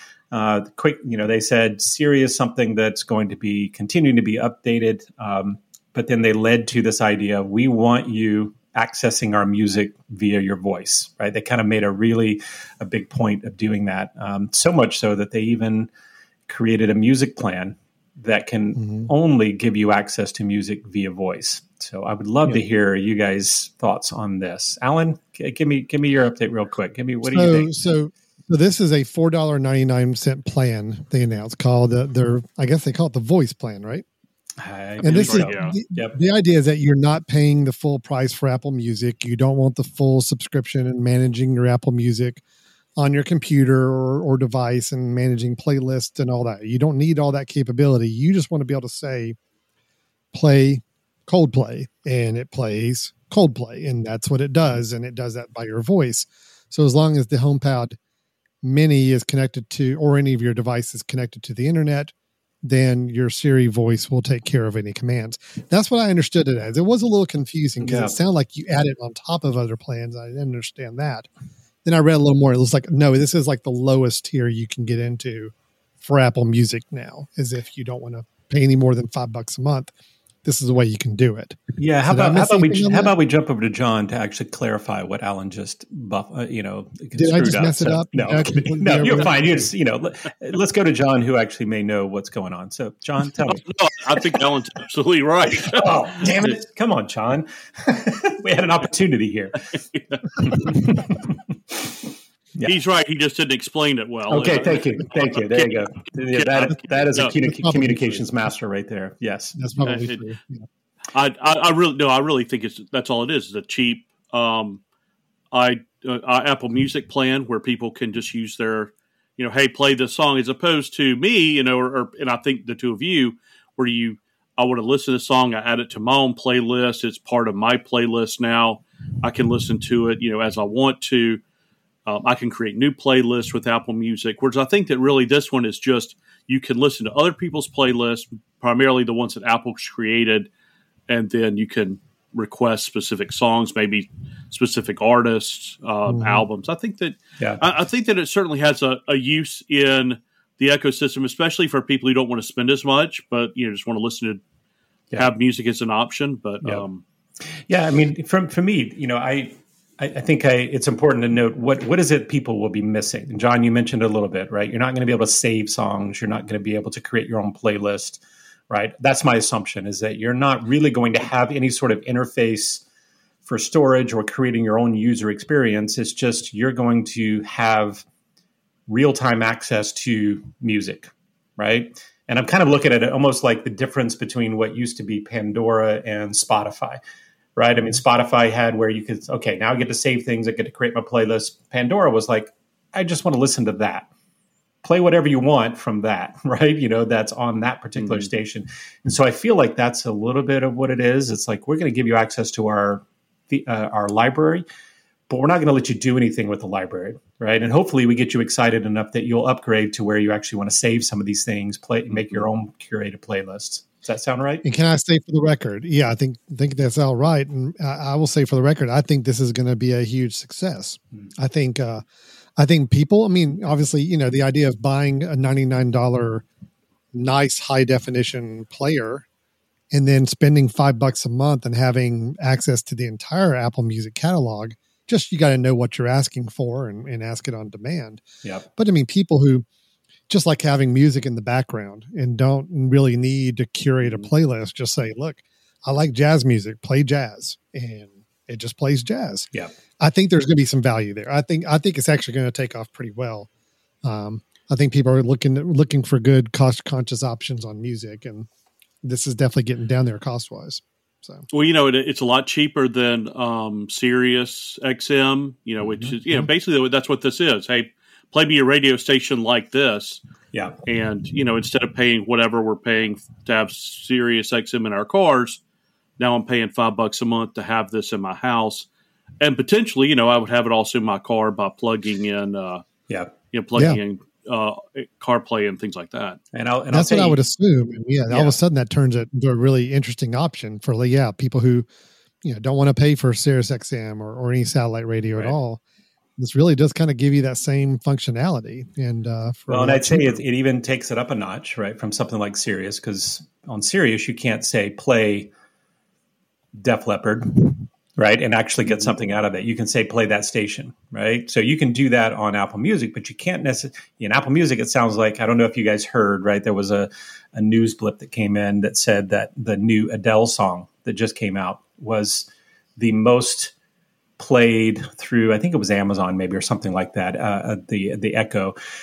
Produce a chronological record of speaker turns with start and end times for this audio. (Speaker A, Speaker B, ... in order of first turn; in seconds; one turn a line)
Speaker A: 0.3-15.9
Speaker A: 16.5-27.7
Speaker B: 18.8-19.1
Speaker B: 27.3-34.0
Speaker A: 34.6-36.2
Speaker B: 35.0-42.4
Speaker C: 35.0-35.8
Speaker B: 43.0-49.4
Speaker B: 50.3-58.0
Speaker B: 58.6-71.3
Speaker A: 67.8-68.1
Speaker B: 71.8-79.9
Speaker B: 80.4-83.1
Speaker A: 81.8-94.4
Speaker B: 87.2-89.6
Speaker C: 93.5-96.6
Speaker A: 95.6-99.6
Speaker C: 99.7-100.5
Speaker A: 100.4-101.9
Speaker C: 102.6-107.3
Speaker A: 104.3-109.6
Speaker B: 107.4-108.2
Speaker B: 109.5-110.6
Speaker C: 109.8-110.2
Speaker C: 111.1-114.8
Speaker C: 115.5-131.4
Speaker C: 132.1-140.5
Speaker C: 141.1-154.4
Speaker B: 146.1-146.4
Speaker C: 155.2-157.0
Speaker A: 157.7-172.8
Speaker A: 173.4-178.1
Speaker A: 178.9-187.0
Speaker A: 187.6-194.1
Speaker A: 194.8-204.6
Speaker A: 205.3-214.6
Speaker B: 214.6-222.0
Speaker B: 222.6-226.4
Speaker B: 227.1-229.2
Speaker B: 229.9-238.2
Speaker B: 238.8-239.6
Speaker B: 240.3-249.5
Speaker A: 244.0-244.3
Speaker B: 250.0-253.5
Speaker B: 254.0-258.5
Speaker B: 259.0-261.4
Speaker C: 261.5-270.2
Speaker C: 270.9-275.6
Speaker C: 276.2-278.9
Speaker C: 279.4-282.9
Speaker C: 283.5-286.4
Speaker A: 286.5-287.4
Speaker B: 286.9-291.9
Speaker A: 288.3-288.6
Speaker B: 292.4-295.8
Speaker B: 296.4-300.4
Speaker A: 299.7-305.5
Speaker A: 306.8-323.7
Speaker A: 324.4-328.8